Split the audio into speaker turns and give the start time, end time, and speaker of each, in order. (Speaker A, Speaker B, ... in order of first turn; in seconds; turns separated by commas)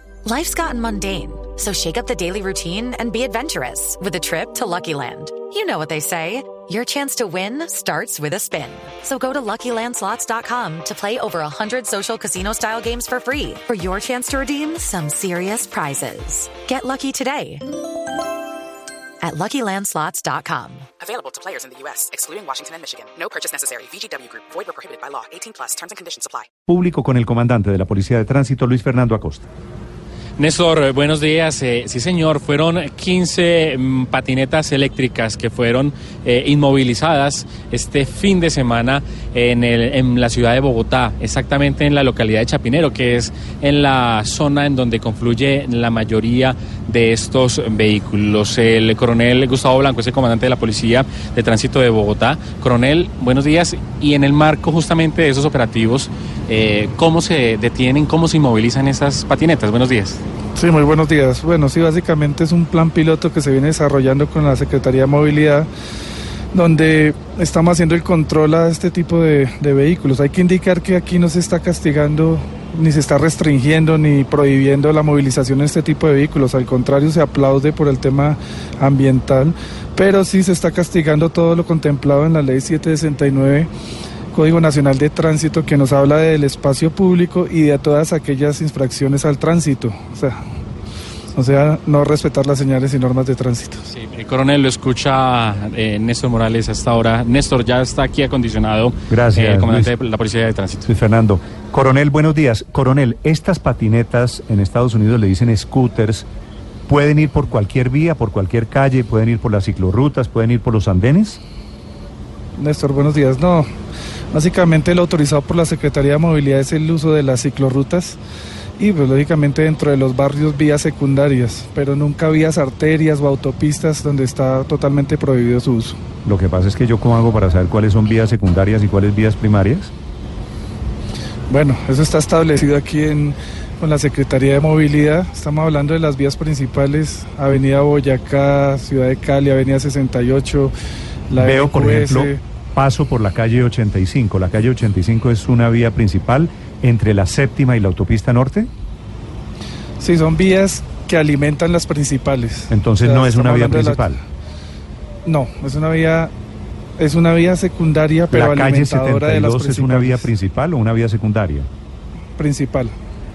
Speaker A: 0.2-17.6, Speaker A: 19.2-20.9, Speaker B: 21.0-26.5, Speaker C: 26.7-29.5, Speaker D: 30.4-60.2, Speaker E: 60.5-65.7, Speaker E: 66.5-83.7, Speaker E: 84.3-90.4, Speaker E: 91.3-93.9, Speaker D: 93.9-100.9, Speaker C: 99.1-99.9, Speaker C: 100.9-106.3, Speaker C: 106.9-111.4, Speaker E: 112.5-113.7, Speaker E: 114.3-118.2, Speaker E: 118.8-126.0, Speaker C: 126.2-129.9, Speaker E: 131.5-140.7, Speaker E: 141.3-142.4, Speaker C: 141.4-148.7, Speaker E: 150.0-154.2, Speaker C: 152.7-154.2, Speaker E: 155.2-156.3, Speaker E: 157.0-160.3, Speaker C: 158.3-161.7, Speaker E: 162.4-162.9